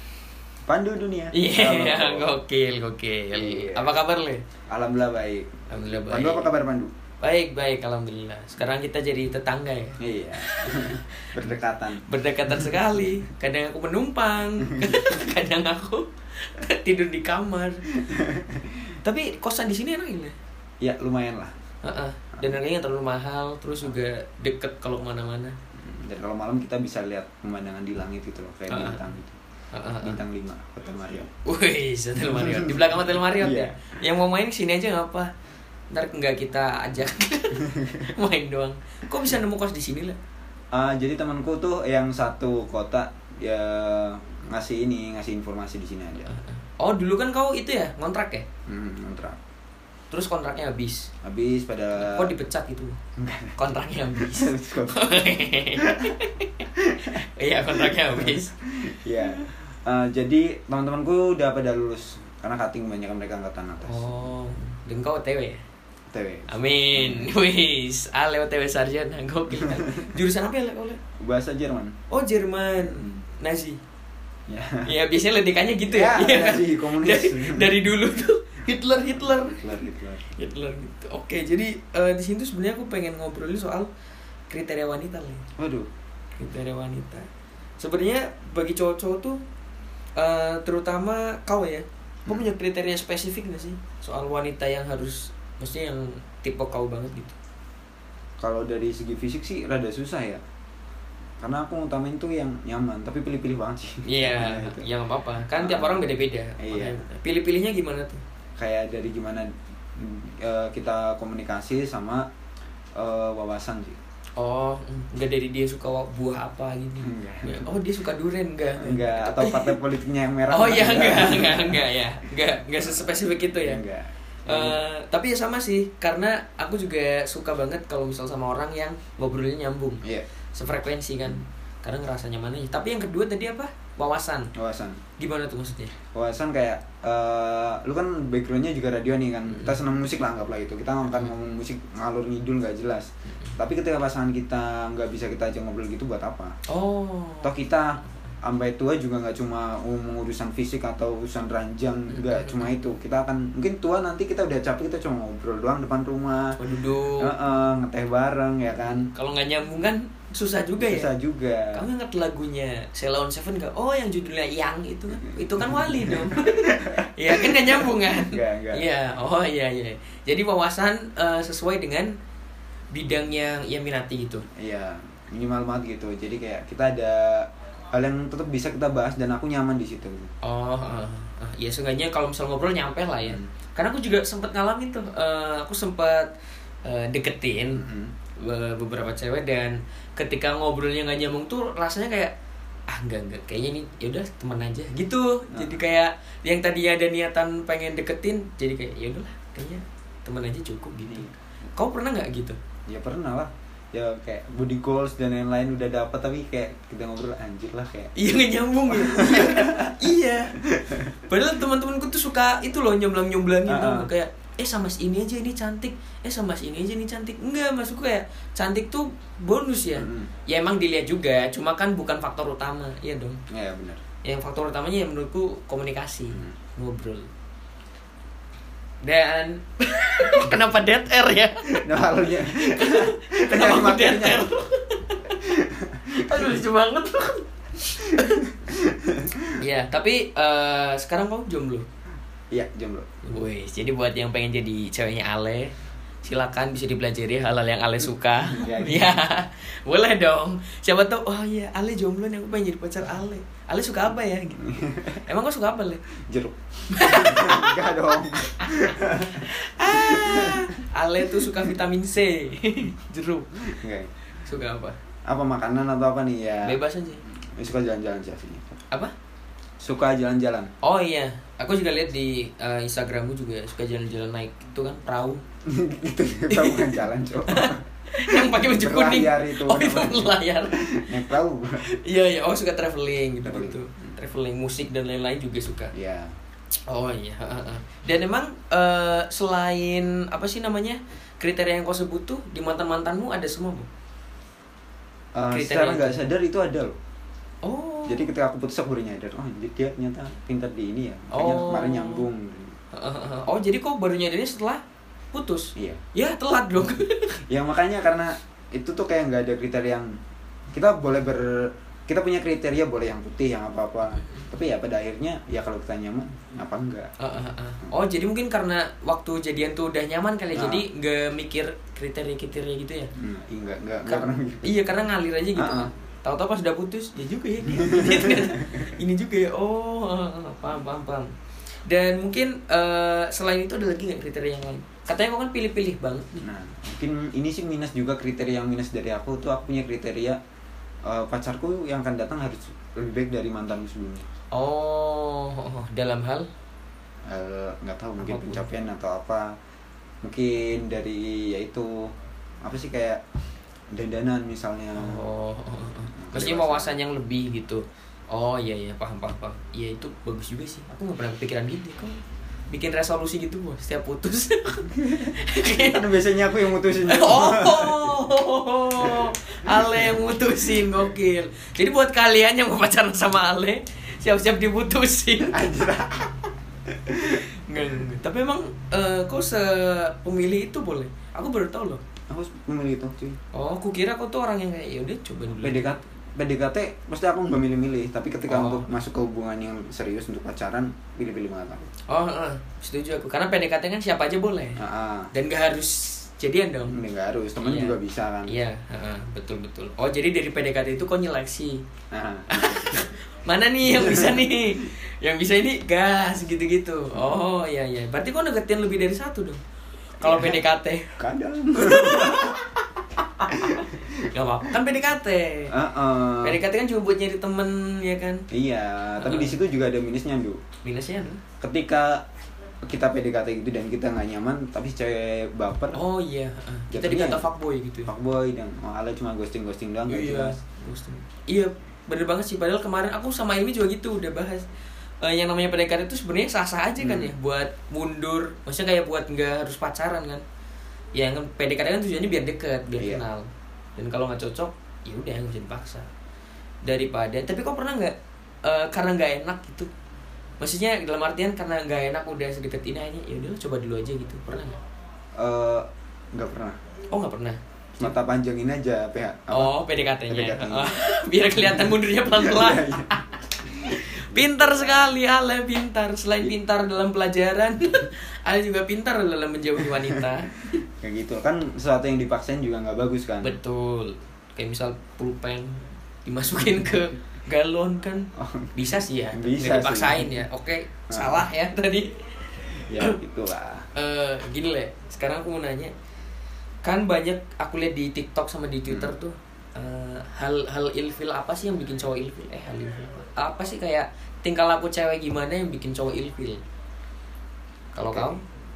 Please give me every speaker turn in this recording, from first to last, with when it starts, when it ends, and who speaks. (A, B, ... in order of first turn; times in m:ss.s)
0:00.6-0:02.4 A
0:01.3-0:04.4 B
0:03.3-0:03.9 A
0:04.7-0:06.9 A
0:05.7-0:06.5 B
0:07.2-0:11.4 B
0:10.0-0:12.8 A
0:12.0-0:17.9 B
0:14.6-0:15.2 A
0:18.0-0:19.0 A
0:19.0-0:20.4 B
0:20.8-0:21.5 A
0:21.8-0:25.6 B
0:25.8-0:29.4 A
0:28.7-0:29.1 B
0:29.7-0:30.2 B
0:30.0-0:31.3 A
0:31.4-0:35.3 B
0:32.3-0:33.8 A
0:35.9-0:40.2 B
0:37.6-0:38.1 A
0:40.7-0:46.4 A
0:46.3-0:48.5 B
0:48.7-0:49.4 A
0:50.1-0:51.1 B
0:51.2-0:52.4 A
0:52.0-0:53.0 B
0:53.2-0:56.2 A
0:53.6-0:58.6 B
0:56.8-1:04.2 A
0:59.2-0:59.5 B
1:03.8-1:05.6 B
1:06.1-1:07.3 A
1:06.5-1:11.0 B
1:09.6-1:10.1 A
1:11.2-1:12.0 A
1:12.1-1:13.8 B
1:12.8-1:13.2 A
1:14.5-1:14.9 A
1:14.9-1:23.9 B
1:15.9-1:17.8 A
1:18.9-1:20.3 A
1:24.5-1:25.5 B
1:25.6-1:25.9 A
1:26.4-1:27.3 B
1:27.8-1:29.4 B
1:30.2-1:37.4 B
1:38.4-1:40.4 A
1:41.4-1:44.9 A
1:44.1-1:48.2 B
1:45.5-1:46.1 A
1:46.6-1:47.1 A
1:48.6-1:52.3 A
1:53.0-1:54.0 A
1:54.4-1:59.8 B
1:57.0-1:57.8 A
1:58.8-2:01.9 A
2:00.5-2:03.8 B
2:02.7-2:04.8 A
2:04.5-2:10.0 B
2:10.6-2:14.5 B
2:14.6-2:15.0 A
2:15.2-2:15.9 B
2:16.1-2:26.6 A
2:19.5-2:19.8 B
2:26.7-2:27.6 B
2:27.4-2:36.6 A
2:32.1-2:32.7 B
2:36.5-2:37.6 B
2:37.2-2:39.1 A
2:38.8-2:41.1 B
2:40.8-2:41.9 A
2:41.7-2:52.2 B
2:45.1-2:48.8 A
2:52.9-2:54.5 B
2:54.5-3:00.3 A
3:00.4-3:06.3 B
3:03.2-3:03.5 A
3:06.8-3:07.8 B
3:07.7-3:08.1 A
3:08.4-3:12.3 B
3:12.9-3:22.6 B
3:15.5-3:15.8 A
3:22.9-3:28.1 A
3:28.2-3:30.6 B
3:28.9-3:30.0 A
3:30.7-3:31.1 A
3:31.1-3:43.4 B
3:33.7-3:34.1 A
3:40.0-3:40.3 A
3:43.5-3:44.0 A
3:44.2-3:47.3 B
3:49.0-3:55.4 B
3:51.6-3:54.5 A
3:55.4-3:56.6 A
3:56.1-3:58.5 B
3:58.2-3:59.5 A
3:59.6-4:01.9 B
4:02.5-4:03.1 A
4:03.2-4:05.7 B
4:06.2-4:16.0 B
4:08.4-4:09.2 A
4:14.6-4:15.2 A
4:16.2-4:20.8 A
4:16.9-4:23.8 B
4:23.6-4:24.1 A
4:24.4-4:25.0 B
4:25.3-4:28.8 A
4:26.6-4:27.2 B
4:29.8-4:30.7 A
4:30.8-4:35.4 B
4:35.7-4:41.8 A
4:36.5-4:41.1 B
4:41.8-4:45.9 B
4:43.4-4:44.1 A
4:45.9-4:46.4 A
4:46.9-4:53.9 B
4:55.3-4:57.0 A
4:55.5-4:56.3 B
4:57.6-4:58.3 B
4:58.1-5:02.8 A
5:01.3-5:02.3 B
5:02.9-5:04.8 B
5:05.3-5:07.4 B
5:07.5-5:10.1 A
5:10.7-5:17.1 A
5:14.1-5:14.5 B
5:17.2-5:23.1 B
5:20.5-5:20.9 A
5:23.2-5:24.8 A
5:24.1-5:31.3 B
5:25.5-5:25.9 A
5:27.7-5:29.0 A
5:31.9-5:36.5 B
5:36.4-5:40.4 A
5:41.0-5:44.3 A
5:44.5-5:46.5 B
5:47.3-5:49.6 A
5:48.2-5:48.7 B
5:50.2-5:53.2 A
5:53.9-5:55.3 A
5:55.0-6:06.2 B
5:56.2-5:57.0 A
6:04.9-6:08.3 A
6:07.1-6:15.7 B
6:09.0-6:11.0 A
6:15.5-6:17.5 A
6:17.3-6:22.0 B
6:22.3-6:23.4 A
6:23.5-6:25.9 B
6:25.5-6:31.9 A
6:28.5-6:28.9 B
6:32.1-6:34.8 B
6:34.8-6:35.3 A
6:35.3-6:37.0 B
6:36.9-6:38.5 A
6:37.6-6:41.8 B
6:42.1-6:43.1 A
6:42.5-6:49.6 B
6:43.8-6:44.9 A
6:50.2-6:51.2 B
6:50.2-6:50.6 A
6:51.2-6:52.8 A
6:51.7-6:52.6 B
6:53.4-6:54.2 A
6:53.4-6:58.5 B
6:55.7-6:56.6 A
6:58.5-7:00.6 A
6:59.2-6:59.6 B
7:00.8-7:01.4 B
7:01.6-7:02.2 A
7:02.9-7:06.0 A
7:05.9-7:08.1 B
7:06.9-7:07.5 A
7:08.1-7:10.6 A
7:10.1-7:14.6 B
7:15.2-7:20.4 B
7:17.0-7:17.4 A
7:21.1-7:23.5 B
7:23.0-7:23.2 A
7:24.0-7:26.1 B
7:26.8-7:29.9 B
7:30.6-7:34.8 B
7:35.4-7:36.8 A
7:37.1-7:38.2 B
7:38.0-7:41.0 A
7:39.5-7:50.8 B
7:41.5-7:45.2 A
7:49.8-7:50.3 A
7:51.0-7:53.6 A
7:53.4-8:02.3 B
7:58.4-8:00.4 A
8:01.1-8:01.4 A
8:02.8-8:03.9 A
8:04.0-8:05.9 B
8:06.8-8:16.6 B
8:08.9-8:09.1 A
8:18.0-8:18.4 B
8:18.0-8:18.4 A